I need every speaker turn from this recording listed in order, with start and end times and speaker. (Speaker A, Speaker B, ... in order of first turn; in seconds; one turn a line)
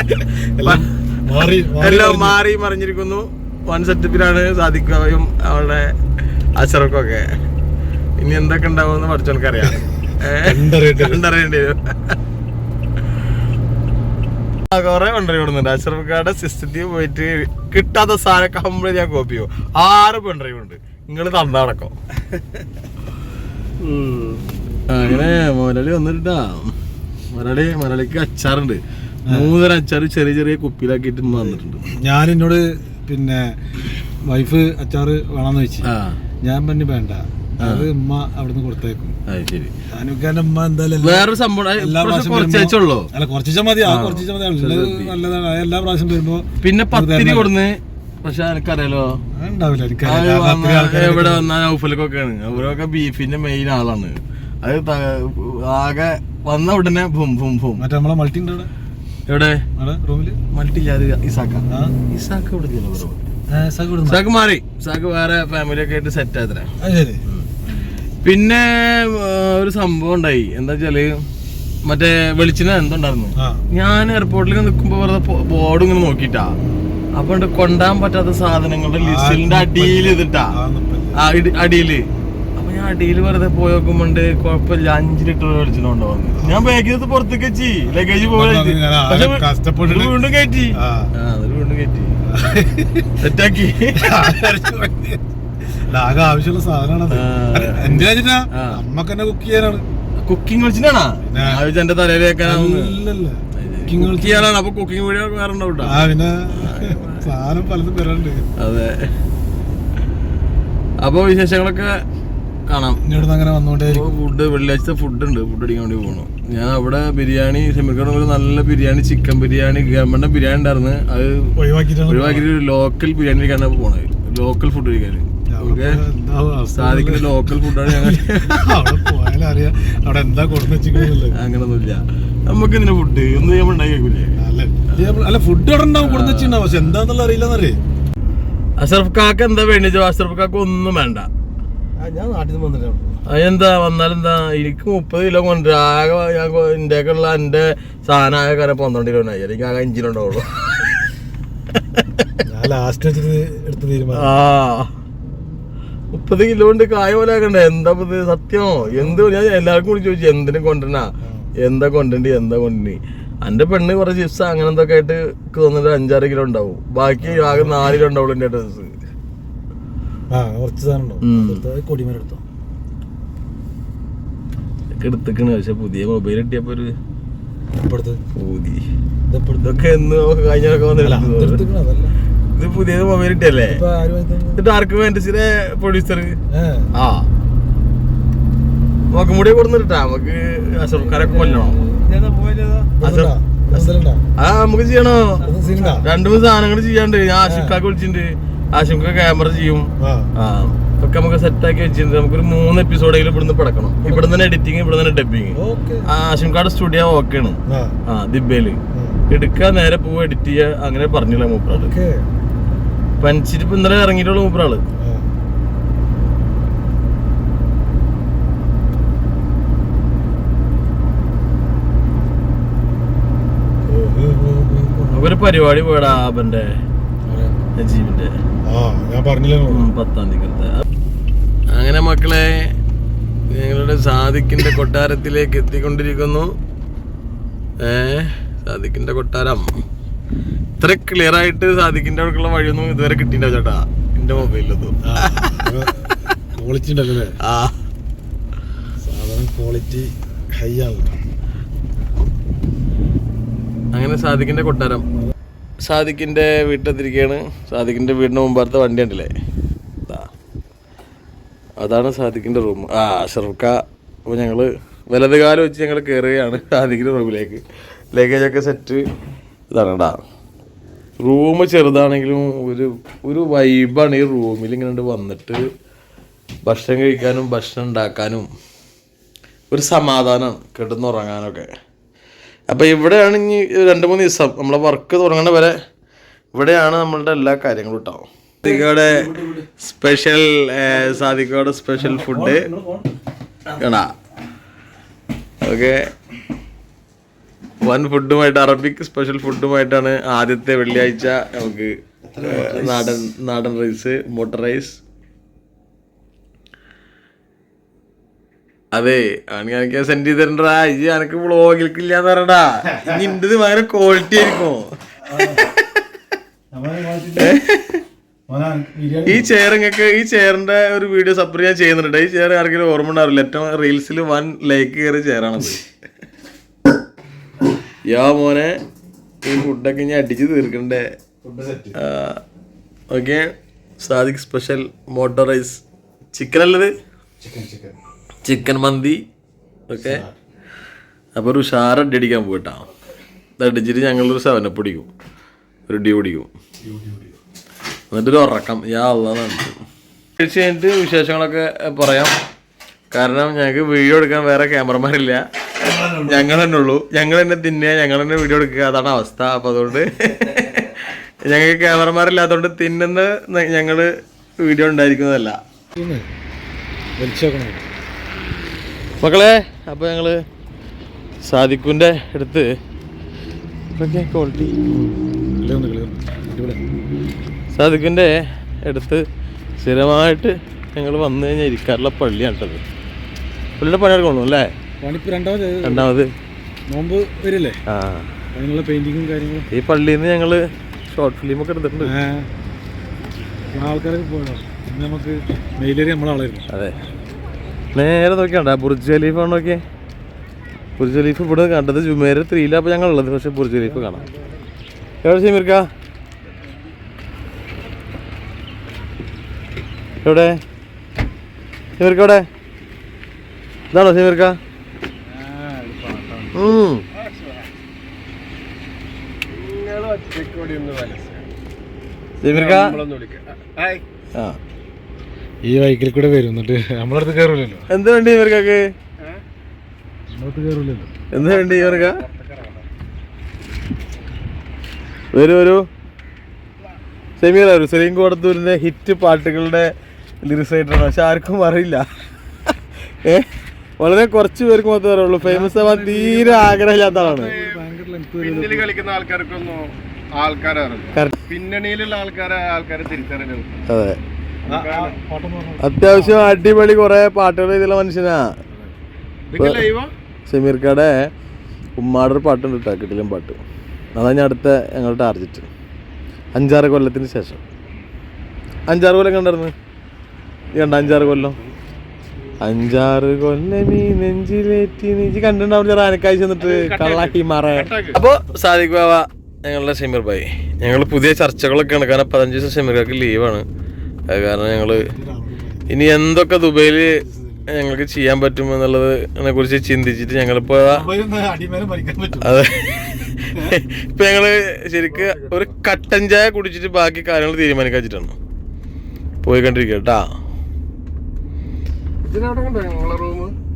Speaker A: 0.6-2.4
Speaker B: 0.6-0.9
Speaker B: 1.8-5.9
Speaker B: 6.6-7.3
Speaker B: 8.2-12.2
Speaker A: 10.4-11.2
Speaker B: 14.7-22.0
Speaker B: 23.8-26.7
Speaker B: 27.3-31.8
Speaker A: 31.3-33.6
Speaker A: 34.2-35.9
Speaker B: 35.8-36.2
Speaker A: 36.4-39.2
Speaker B: 37.6-37.9
Speaker B: 39.3-39.7
Speaker A: 39.9-47.5
Speaker B: 41.0-43.1
Speaker B: 43.8-45.1
Speaker B: 46.6-49.2
Speaker A: 49.3-51.5
Speaker B: 50.0-57.8
Speaker A: 57.8-58.7
Speaker B: 59.3-59.6
Speaker A: 59.8-60.4
Speaker B: 60.5-63.2
Speaker A: 61.7-61.9
Speaker A: 63.5-64.2
Speaker B: 64.0-66.7
Speaker A: 66.8-67.9
Speaker B: 68.2-71.2
Speaker B: 71.8-76.5
Speaker A: 73.3-73.6
Speaker B: 77.1-80.6
Speaker A: 79.0-81.2
Speaker B: 81.2-92.1
Speaker A: 88.0-90.2
Speaker A: 90.7-91.1
Speaker A: 92.2-93.1
Speaker B: 93.2-94.3
Speaker A: 93.9-99.8
Speaker B: 97.1-98.8
Speaker B: 100.2-103.0
Speaker A: 101.3-101.6
Speaker A: 102.4-104.5
Speaker B: 103.5-106.0
Speaker A: 105.8-108.5
Speaker B: 106.6-107.2
Speaker B: 108.6-109.0
Speaker B: 111.0-111.9
Speaker B: 112.7-113.0
Speaker A: 113.0-114.1
Speaker B: 113.9-121.5
Speaker A: 121.5-122.5
Speaker B: 122.1-126.0
Speaker A: 125.5-131.3
Speaker B: 126.7-129.1
Speaker B: 130.9-134.3
Speaker A: 134.4-137.8
Speaker B: 136.0-136.7
Speaker B: 138.8-141.3
Speaker A: 142.0-143.2
Speaker B: 143.3-151.1
Speaker B: 151.7-152.3
Speaker A: 152.4-154.3
Speaker B: 154.2-154.9
Speaker B: 156.1-168.9
Speaker A: 158.8-159.2
Speaker A: 161.2-161.5
Speaker A: 167.2-167.9
Speaker A: 170.3-172.4
Speaker B: 171.2-171.6
Speaker B: 175.0-176.9
Speaker A: 177.8-178.2
Speaker B: 178.3-178.8
Speaker A: 179.3-179.9
Speaker B: 179.6-181.6
Speaker A: 180.9-182.1
Speaker B: 182.6-183.8
Speaker A: 183.7-184.6
Speaker B: 184.6-186.4
Speaker A: 186.5-186.9
Speaker B: 186.9-187.3
Speaker B: 189.1-205.5
Speaker A: 191.3-192.0
Speaker A: 193.0-194.2
Speaker A: 195.4-196.1
Speaker A: 197.4-197.8
Speaker A: 200.0-200.3
Speaker A: 204.0-204.4
Speaker A: 205.5-206.1
Speaker B: 206.1-208.8
Speaker A: 207.7-207.9
Speaker A: 208.9-209.2
Speaker B: 209.3-211.9
Speaker A: 211.7-212.2
Speaker B: 213.2-214.8
Speaker A: 215.0-215.3
Speaker A: 223.8-225.3
Speaker B: 225.1-226.7
Speaker A: 227.3-227.6
Speaker B: 227.8-228.3
Speaker A: 228.7-229.9
Speaker B: 229.7-230.8
Speaker B: 231.7-232.5
Speaker B: 233.5-236.5
Speaker B: 237.8-239.7
Speaker B: 240.8-245.6
Speaker A: 245.0-247.3
Speaker B: 247.4-247.8
Speaker A: 249.0-251.2
Speaker B: 253.9-255.1
Speaker B: 255.8-259.3
Speaker B: 261.8-269.0
Speaker B: 269.7-270.2
Speaker B: 271.2-275.6
Speaker B: 276.6-278.5
Speaker B: 279.7-281.7
Speaker B: 282.7-285.8
Speaker B: 286.5-292.7
Speaker A: 288.6-289.6
Speaker A: 291.9-293.1
Speaker B: 293.7-294.1
Speaker B: 295.6-296.0
Speaker B: 297.8-305.0
Speaker A: 302.4-302.7
Speaker B: 308.9-316.0
Speaker A: 315.2-315.6
Speaker A: 316.7-317.6
Speaker B: 317.4-318.0
Speaker A: 318.5-319.5
Speaker B: 319.2-325.8
Speaker B: 328.1-328.8
Speaker B: 329.4-331.1
Speaker A: 331.4-332.0
Speaker B: 332.0-332.4
Speaker B: 333.1-335.8
Speaker B: 336.3-336.9
Speaker A: 337.4-338.0
Speaker B: 338.4-339.2
Speaker B: 339.9-340.2
Speaker A: 340.0-340.4
Speaker B: 341.3-342.8
Speaker B: 343.6-345.1
Speaker B: 345.9-346.5
Speaker A: 346.8-347.4
Speaker B: 348.1-349.8
Speaker B: 350.4-352.3
Speaker B: 353.1-355.4
Speaker A: 355.9-356.4
Speaker B: 356.1-365.6
Speaker A: 365.9-366.3
Speaker A: 367.2-367.8
Speaker B: 369.2-370.4
Speaker B: 371.4-372.7
Speaker B: 374.0-374.8
Speaker A: 375.6-376.8
Speaker B: 377.7-378.3
Speaker B: 378.8-379.2
Speaker B: 379.8-382.8
Speaker B: 383.8-384.7
Speaker A: 385.0-386.1
Speaker B: 385.8-386.3
Speaker A: 386.9-387.8
Speaker B: 387.9-388.3
Speaker A: 388.5-389.7
Speaker B: 389.7-392.1
Speaker A: 392.0-392.5
Speaker A: 393.7-396.6
Speaker B: 397.9-399.8
Speaker B: 401.0-404.2
Speaker A: 403.8-404.6
Speaker B: 405.2-405.9
Speaker B: 410.2-410.6
Speaker B: 412.0-412.4
Speaker B: 413.9-414.6
Speaker A: 415.3-416.8
Speaker B: 416.5-417.1
Speaker C: 417.2-417.7
Speaker C: 419.5-421.5
Speaker B: 422.4-423.0
Speaker C: 422.4-424.0
Speaker A: 425.7-427.9
Speaker B: 427.9-428.8
Speaker A: 430.3-431.1
Speaker B: 431.3-432.2
Speaker C: 431.3-432.8
Speaker B: 435.3-435.8
Speaker B: 437.4-439.9
Speaker B: 440.4-442.0
Speaker B: 442.7-443.5
Speaker B: 444.0-447.5
Speaker A: 445.4-449.0
Speaker C: 448.4-453.8
Speaker B: 451.1-451.4
Speaker B: 453.9-454.2
Speaker A: 454.6-456.7
Speaker C: 454.7-455.2
Speaker B: 455.8-458.5
Speaker C: 459.5-460.1
Speaker B: 459.6-459.9
Speaker B: 460.5-461.3
Speaker B: 462.0-463.6
Speaker B: 464.1-465.7
Speaker B: 466.5-467.6
Speaker B: 468.9-469.7
Speaker B: 470.7-471.6
Speaker A: 470.9-471.5
Speaker B: 472.6-483.6
Speaker C: 476.6-478.2
Speaker B: 484.3-485.1
Speaker A: 484.8-485.9
Speaker B: 485.9-487.1
Speaker A: 487.0-487.8
Speaker B: 487.7-491.0
Speaker A: 490.8-492.6
Speaker B: 492.4-498.3
Speaker A: 493.5-493.8
Speaker B: 499.4-500.3
Speaker C: 502.3-503.5